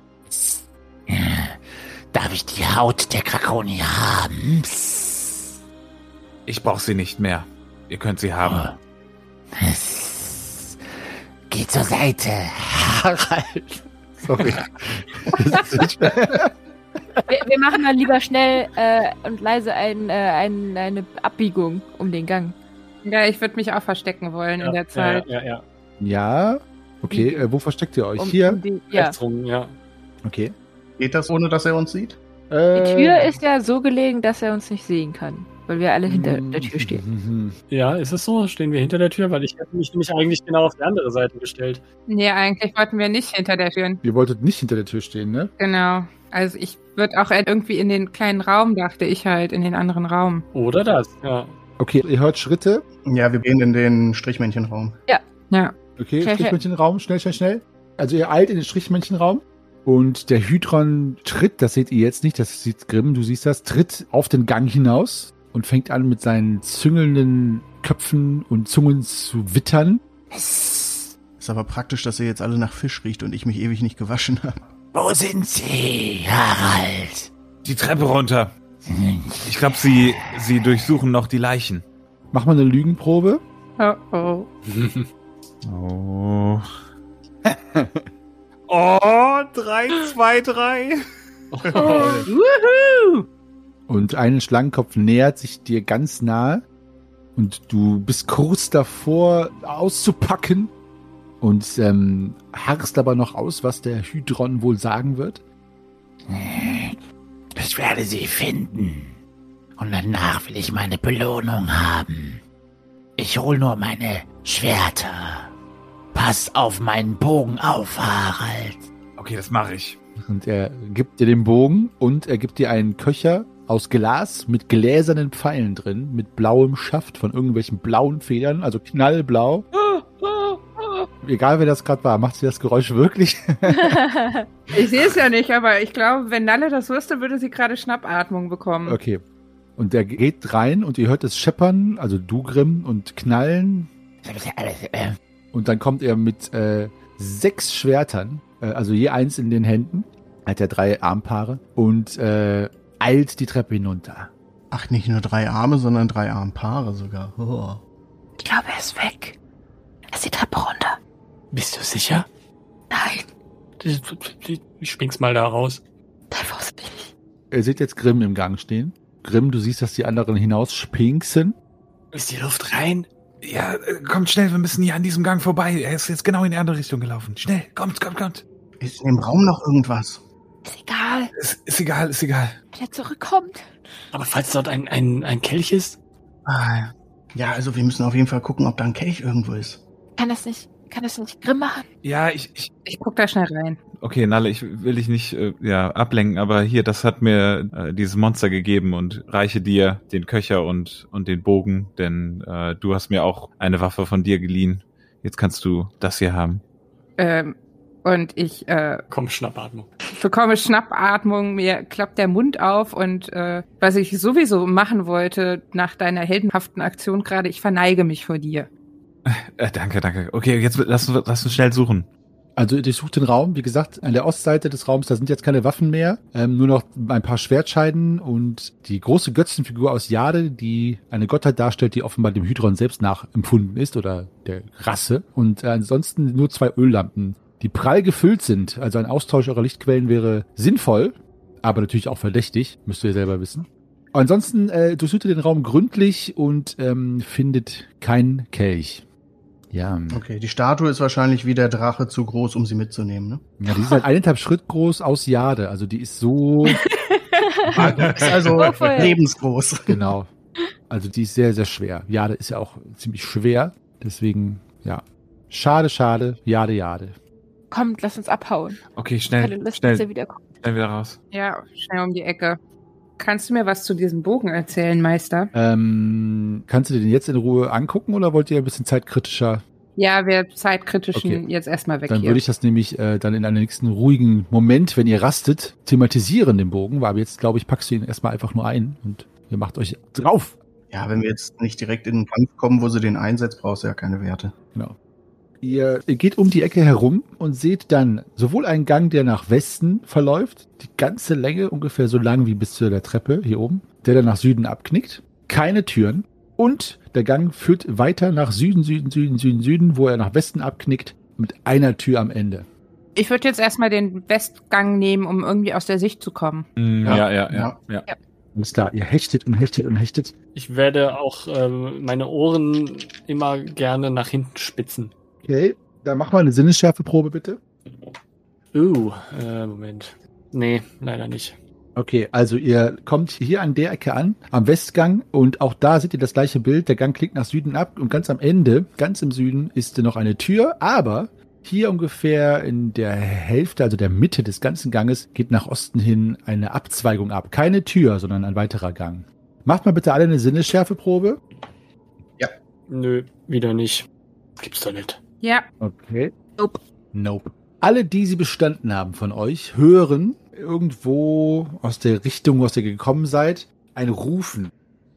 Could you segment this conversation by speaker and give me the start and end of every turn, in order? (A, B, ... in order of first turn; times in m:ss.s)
0:00.3-0:05.5 A
0:06.5-0:08.7 B
0:08.4-0:08.8 A
0:09.5-0:10.8 A
0:11.5-0:13.8 A
0:14.2-0:16.5 C
0:17.3-0:22.6 D
0:23.0-0:25.3 E
0:24.6-0:25.6 F
0:26.0-0:28.6 C
0:27.1-0:27.5 D
0:28.2-0:29.2 D
0:28.9-0:29.8 F
0:30.2-0:30.5 C
0:31.0-0:32.2 G
0:32.5-0:33.3 C
0:32.7-0:37.0 D
0:36.1-0:37.6 C
0:37.7-0:41.8 F
0:42.1-0:44.0 E
0:44.0-0:45.5 C
0:45.6-0:50.5 E
0:50.5-0:51.5 F
0:51.8-0:52.8 C
0:53.1-0:55.0 G
0:56.0-1:10.0 C
0:56.2-0:56.6 D
1:10.3-1:11.1 A
1:11.4-1:14.6 G
1:14.9-1:17.3 A
1:17.6-1:18.5 B
1:18.9-1:19.6 A
1:19.4-1:21.8 B
1:22.3-1:23.4 C
1:23.8-1:24.5 E
1:24.7-1:25.1 F
1:25.6-1:26.7 B
1:27.5-1:28.0 C
1:28.7-1:31.0 B
1:31.5-1:32.3 F
1:31.7-1:31.9 B
1:31.8-1:33.3 E
1:33.9-1:36.6 C
1:37.4-1:40.7 C
1:41.4-1:45.4 C
1:46.3-1:47.0 A
1:47.6-1:49.2 A
1:49.8-1:52.4 A
1:53.2-1:55.5 A
1:56.1-1:58.9 A
1:59.2-2:00.0 B
2:00.2-2:09.6 C
2:11.2-2:14.0 C
2:13.7-2:14.4 D
2:14.7-2:19.0 E
2:18.9-2:19.2 C
2:19.8-2:23.9 C
2:24.2-2:25.2 A
2:25.5-2:34.3 C
2:34.7-2:37.8 G
2:38.4-2:39.4 D
2:40.1-2:41.0 D
2:41.5-2:42.3 F
2:42.9-2:43.3 D
2:43.8-2:45.8 F
2:46.3-2:47.1 D
2:47.5-2:51.6 C
2:52.1-2:53.1 F
2:53.4-2:58.4 B
2:58.8-3:00.2 G
3:00.6-3:01.3 D
3:01.4-3:02.6 B
3:02.7-3:03.7 D
3:04.1-3:06.0 F
3:06.5-3:09.8 G
3:10.2-3:11.8 D
3:12.0-3:12.7 B
3:12.8-3:13.8 E
3:14.0-3:26.6 B
3:27.2-3:29.0 E
3:29.1-3:29.9 F
3:30.2-3:38.7 E
3:39.3-3:42.1 B
3:42.6-4:09.1 C
4:09.7-4:10.2 C
4:10.1-4:13.5 G
4:13.6-4:16.8 C
4:17.4-4:19.1 D
4:17.7-4:20.0 G
4:18.1-4:18.4 B
4:19.9-4:20.3 C
4:20.9-4:27.2 C
4:27.7-4:28.8 D
4:29.0-4:30.1 B
4:29.4-4:30.4 D
4:30.6-4:31.2 B
4:31.3-4:32.6 E
4:33.2-4:35.5 E
4:35.5-4:39.6 C
4:40.0-4:42.4 E
4:41.1-4:41.4 C
4:42.1-4:50.6 C
4:50.9-4:54.5 G
4:55.6-5:12.7 C
5:13.2-5:16.7 E
5:16.8-5:18.1 B
5:17.0-5:17.7 G
5:18.6-5:20.3 C
5:20.6-5:25.1 F
5:25.4-5:27.6 C
5:28.7-5:31.6 F
5:32.0-5:51.4 C
5:52.9-5:55.2 F
5:55.4-5:55.7 E
5:55.8-5:56.3 C
5:57.1-6:04.7 C